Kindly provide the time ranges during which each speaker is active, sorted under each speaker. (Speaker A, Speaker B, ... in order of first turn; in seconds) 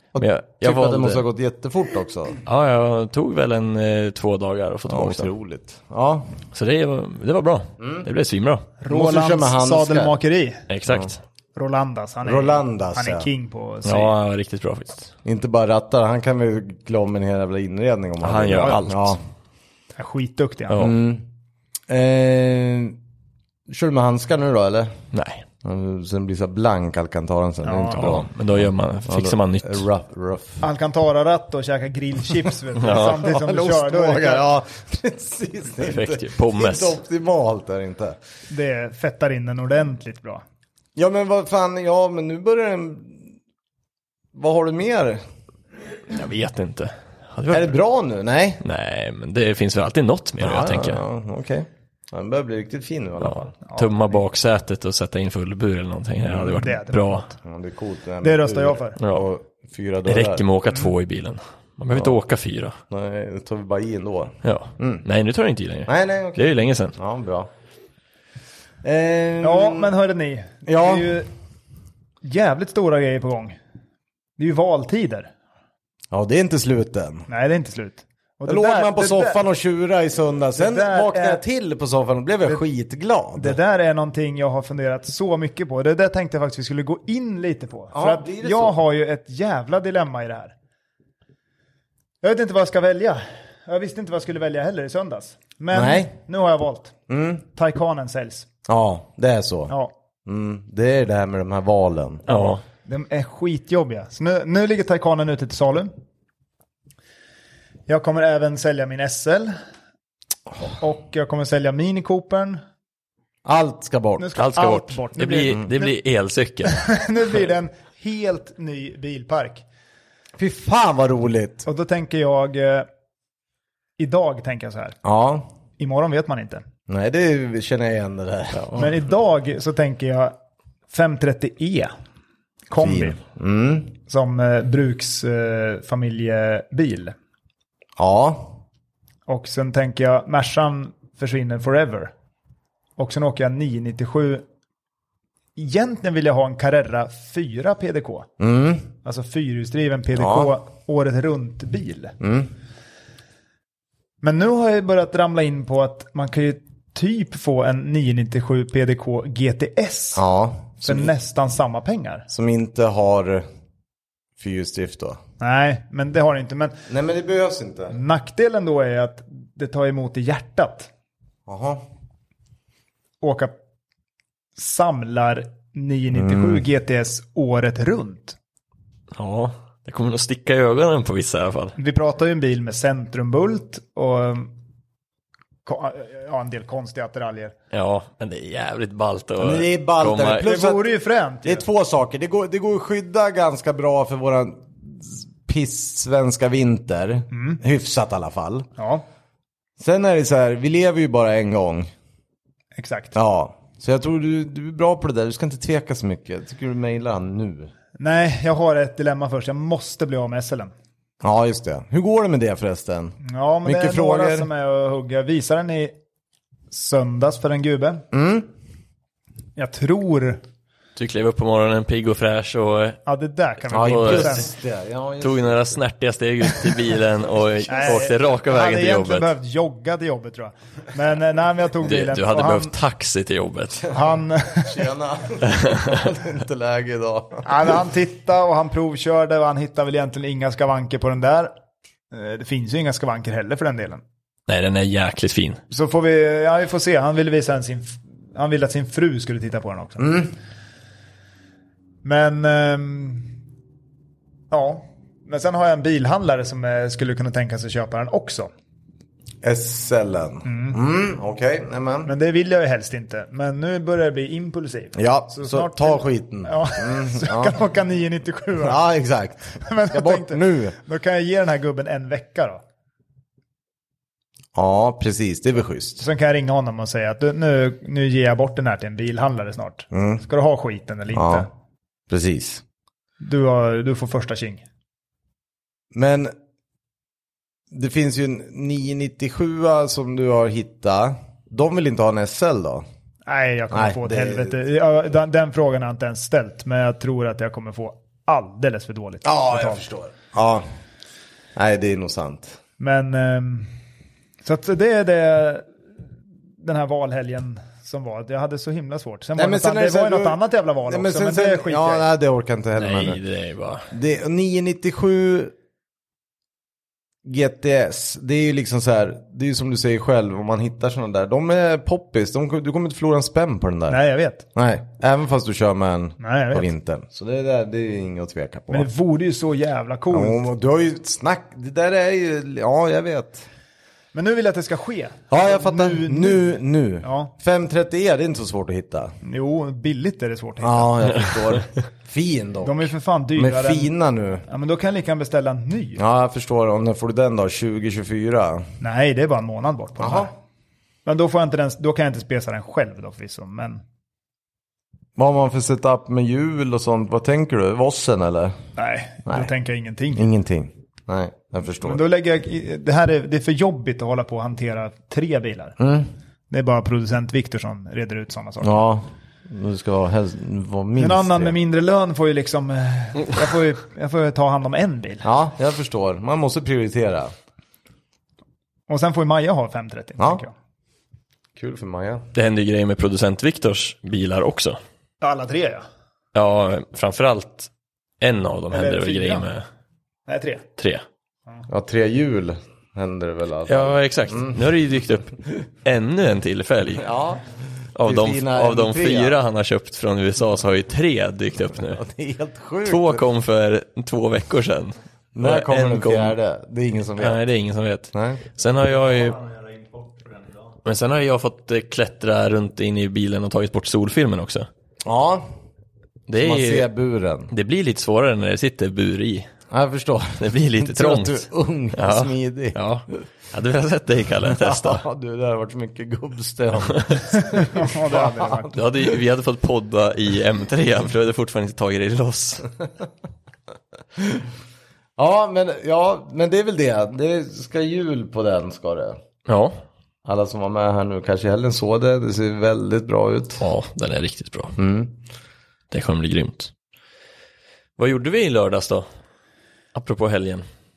Speaker A: 0.1-2.4, 4.9-6.4, 7.8-8.1, 8.9-10.2, 12.2-13.3, 15.2-19.2, 20.8-21.3, 21.9-23.0, 23.7-24.9, 25.6-28.3, 29.1-30.6, 32.8-38.2, 41.0-43.3, 44.3-45.2, 47.5-48.6, 50.4-53.5, 56.3-56.6, 57.4-60.4, 62.9-65.0, 65.9-67.5, 68.8-69.9, 70.7-71.2, 76.1-77.3, 78.5-83.6, 87.9-88.8, 95.7-96.1, 97.1-97.4, 98.7-99.7, 100.3-102.2, 113.5-114.3, 120.4-121.7, 125.0-125.5, 126.9-128.9, 132.8-133.9, 138.0-138.6, 148.4-148.9, 150.2-150.5, 152.2-152.5, 160.2-161.1, 162.3-163.4, 164.4-165.2, 166.9-167.9, 171.5-171.8, 176.1-176.6, 189.4-190.9, 191.4-198.7, 199.8-201.9, 203.1-207.7, 211.2-214.5, 218.1-218.5, 223.7-225.6, 234.6-237.8, 250.0-250.3, 259.4-262.1, 264.9-267.6, 268.6-270.8, 274.6-276.0, 279.9-280.2, 281.1-281.5, 282.1-282.6, 285.9-286.3, 287.7-292.8, 293.7-294.6, 299.2-300.6, 301.6-302.6, 309.4-313.2, 313.9-315.5, 317.2-324.0, 324.6-328.9, 330.1-333.5, 335.3-339.1, 340.6-344.5, 346.0-348.7, 350.0-350.3, 355.2-358.6, 360.1-362.0, 365.8-366.1, 368.6-371.6, 375.2-377.3, 381.6-382.2, 391.7-394.6, 397.0-397.5, 398.0-399.4, 401.8-403.2, 405.4-407.4, 408.1-408.4, 415.0-415.4, 416.4-417.5, 419.7-422.8, 424.5-428.8, 434.2-434.4, 435.2-439.2, 440.2-443.6, 444.8-445.1
Speaker B: 0.2-1.2, 2.5-5.3, 6.5-8.7, 10.7-11.2, 13.8-15.1, 18.2-19.2, 20.7-20.9, 25.1-25.4, 27.9-29.8, 32.8-33.2, 35.8-37.0, 46.1-47.8, 48.6-51.0, 53.2-57.3, 59.0-59.3, 60.1-62.8, 64.4-67.0, 102.3-102.6, 114.4-116.8, 128.6-128.8, 179.2-181.8, 187.7-190.5, 221.0-223.0, 223.7-224.4, 225.2-229.3, 231.8-233.9, 235.5-235.9, 244.5-245.6, 312.8-313.9, 382.3-384.8, 386.4-387.7, 388.2-389.6, 390.8-391.0, 393.7-397.1, 398.0-402.0, 402.9-406.4, 407.2-409.4, 410.8-414.7, 416.3-416.9, 417.5-419.5, 420.4-425.0, 428.7-432.7, 439.5-439.8, 443.6-444.8, 445.9-446.7, 448.0-449.1, 449.9-450.6
Speaker C: 8.8-10.6, 11.6-14.2, 20.0-20.8, 27.6-28.2, 30.6-34.5, 38.5-40.4, 53.7-54.2, 56.5-57.4, 58.2-59.0, 69.4-71.3, 72.2-73.6, 74.4-75.3, 77.3-79.4, 80.6-81.4, 83.4-90.5, 92.2-97.0, 97.5-98.5, 102.3-105.9, 107.9-109.5, 110.7-112.6, 114.2-115.9, 116.7-119.6, 121.7-122.9, 124.0-125.0, 125.8-126.6, 128.7-130.3, 130.9-131.9, 132.7-133.2, 134.1-137.2, 139.3-142.1, 143.0-144.4, 145.6-148.3, 149.0-152.2, 154.2-160.2, 160.8-162.3, 165.4-166.8, 167.9-170.9, 173.2-173.5, 174.6-178.4, 181.8-184.5, 185.7-187.6, 190.4-191.7, 197.3-197.6, 198.8-199.0, 202.8-203.1, 208.0-210.7, 213.2-215.9, 216.7-218.1, 219.6-220.4, 223.1-224.5, 227.7-232.7, 233.9-234.9, 237.4-241.5, 242.1-244.0, 245.7-250.2, 252.0-253.3, 254.5-258.5, 260.4-260.8, 262.1-268.8, 269.6-272.6, 276.0-281.5, 283.2-284.6, 293.3-299.9, 302.8-303.7, 304.4-305.7, 306.6-312.1, 323.9-324.4, 326.2-326.7, 328.7-330.4, 334.1-337.3, 339.2-341.2, 342.6-343.9, 344.5-346.0, 348.8-350.3, 351.1-353.8, 358.8-360.3, 361.8-365.8, 366.5-368.8, 371.0-375.3, 378.9-380.5, 385.2-385.9, 388.7-389.5, 390.3-390.6, 427.3-428.8
Speaker D: 408.8-410.8